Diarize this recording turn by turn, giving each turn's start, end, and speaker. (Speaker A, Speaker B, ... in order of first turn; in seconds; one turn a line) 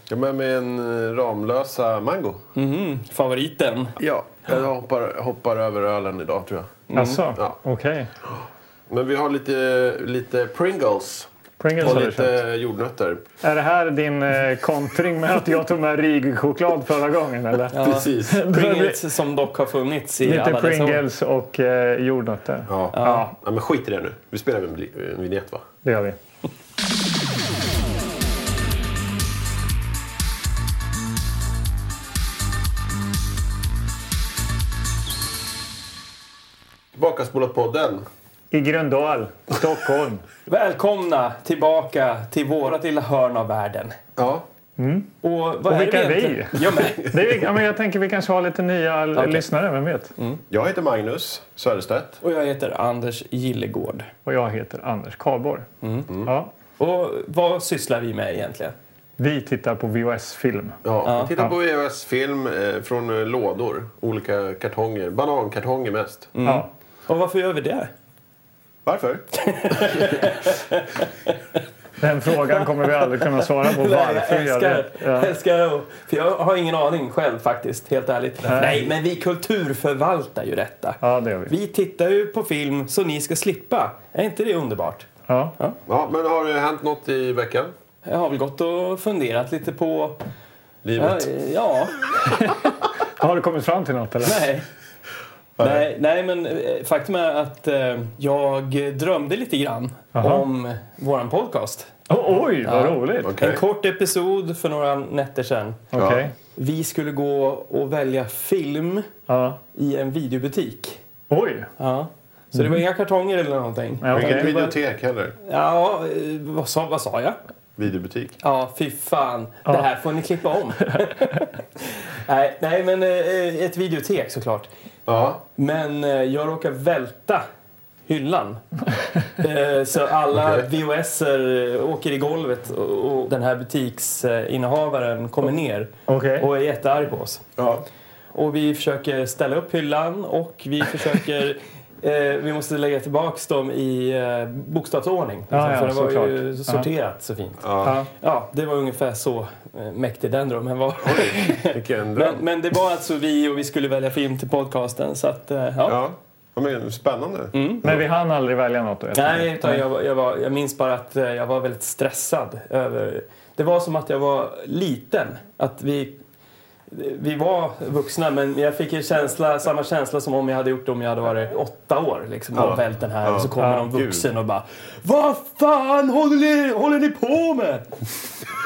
Speaker A: 0.1-2.4
Speaker B: 2.5-4.0
Speaker A: 4.0-6.8
Speaker B: 6.9-7.2
Speaker C: 6.9-8.1
Speaker A: 8.2-11.3
Speaker C: 11.6-12.4
Speaker A: 11.8-13.2
Speaker C: 13.4-19.0
Speaker B: 17.7-21.0
Speaker A: 17.8-18.4
Speaker C: 20.2-23.3
Speaker A: 22.7-25.6
Speaker B: 22.9-23.2
Speaker C: 25.8-26.1
Speaker A: 36.9-38.0
Speaker C: 38.5-40.2
Speaker B: 40.5-44.0
Speaker A: 44.2-44.5
Speaker C: 44.8-45.1
Speaker B: 45.2-47.1
Speaker C: 45.6-50.1
Speaker B: 49.1-49.5
Speaker A: 50.5-52.2
Speaker B: 52.2-54.1
Speaker C: 54.2-55.7
Speaker B: 55.8-56.1
Speaker C: 56.2-56.5
Speaker B: 56.8-58.7
Speaker C: 59.2-60.7
Speaker A: 60.8-66.3
Speaker B: 61.0-61.3
Speaker B: 66.3-67.9
Speaker A: 68.8-70.3
Speaker B: 69.3-71.6
Speaker C: 72.0-75.3
Speaker B: 72.5-85.8
Speaker C: 78.5-78.8
Speaker C: 81.0-81.5
Speaker C: 85.3-85.5
Speaker A: 85.9-87.7
Speaker B: 88.0-90.2
Speaker A: 90.8-91.3
Speaker B: 91.0-92.0
Speaker C: 92.3-94.5
Speaker B: 94.2-94.6
Speaker A: 95.6-95.8
Speaker B: 95.6-101.9
Speaker C: 100.2-100.5
Speaker C: 102.1-103.3
Speaker B: 102.6-105.8
Speaker A: 103.2-103.6
Speaker C: 105.9-106.3
Speaker A: 105.9-106.2
Speaker B: 106.5-109.1
Speaker C: 109.3-109.6
Speaker B: 109.7-111.0
Speaker C: 111.3-111.7
Speaker B: 111.8-114.8
Speaker C: 114.0-114.5
Speaker A: 114.1-115.3
Speaker B: 115.4-117.4
Speaker A: 117.8-118.4
Speaker B: 118.4-121.5
Speaker B: 122.0-124.7
Speaker A: 125.1-125.4
Speaker B: 125.5-127.4
Speaker B: 128.1-128.6
Speaker B: 129.4-137.4
Speaker A: 130.3-130.7
Speaker C: 136.1-136.5
Speaker A: 137.6-137.8
Speaker B: 138.3-156.0
Speaker C: 145.5-146.8
Speaker A: 147.6-148.0
Speaker C: 147.8-148.1
Speaker A: 151.0-152.4
Speaker A: 155.8-158.0
Speaker B: 157.5-157.8
Speaker C: 157.8-159.8
Speaker B: 159.1-166.2
Speaker B: 166.9-177.9
Speaker A: 172.5-174.3
Speaker C: 173.6-173.9